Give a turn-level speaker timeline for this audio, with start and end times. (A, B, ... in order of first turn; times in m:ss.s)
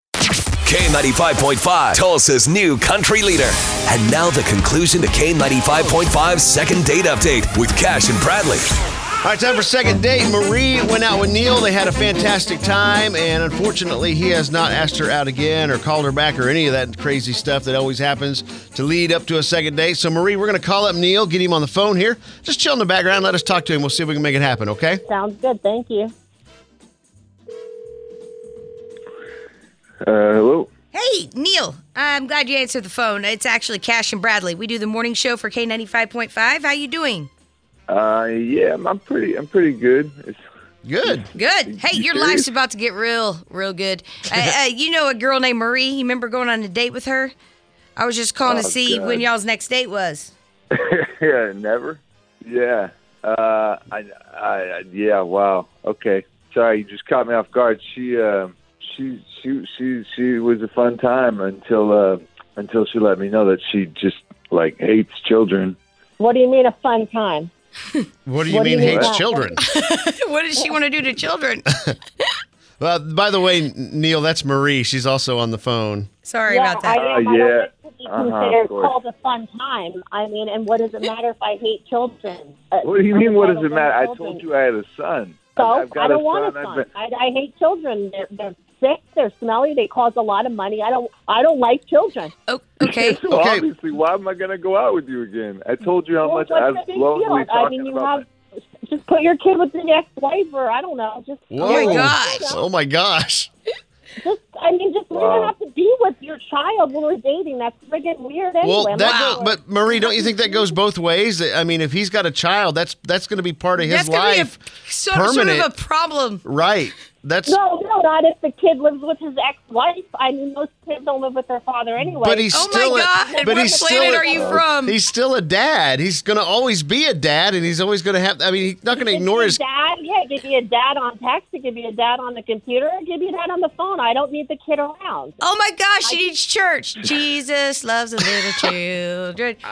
0:00.6-0:08.7 A
0:09.2-0:25.0 B
0:25.1-0:26.1 C
0:30.0-0:30.7 D
0:30.9-0:37.3 E
0:37.9-0:40.4 D
0:40.8-0:41.3 B
0:41.0-0:42.5 D
0:41.3-0:47.3 E
0:48.0-0:50.3 E
0:48.4-0:49.3 D
0:50.7-1:05.8 D
1:06.2-1:07.5 C
1:08.2-1:09.6 B
1:08.4-1:09.6 C
1:08.8-1:09.1 D
1:09.6-1:12.3 E
1:12.8-1:16.1 B
1:16.2-1:17.0 E
1:16.5-1:24.4 C
1:16.9-1:19.0 D
1:22.8-1:26.9 D
1:25.6-1:32.3 C
1:32.5-1:33.2 E
1:32.8-1:38.2 D
1:33.3-1:33.7 B
1:36.2-1:38.2 C
1:38.8-1:42.6 C
1:41.5-1:43.5 B
1:41.6-1:42.5 E
1:44.2-1:49.6 C
1:45.1-1:45.5 D
1:48.6-1:54.5 B
1:49.0-1:49.4 E
1:50.2-1:50.6 C
1:53.8-1:56.4 E
1:55.1-1:55.7 B
1:56.4-1:57.6 B
1:57.4-2:04.6 C
2:02.2-2:09.6 B
2:02.5-2:05.0 E
2:08.9-2:15.4 C
2:15.4-2:19.6 E
2:16.0-2:16.3 C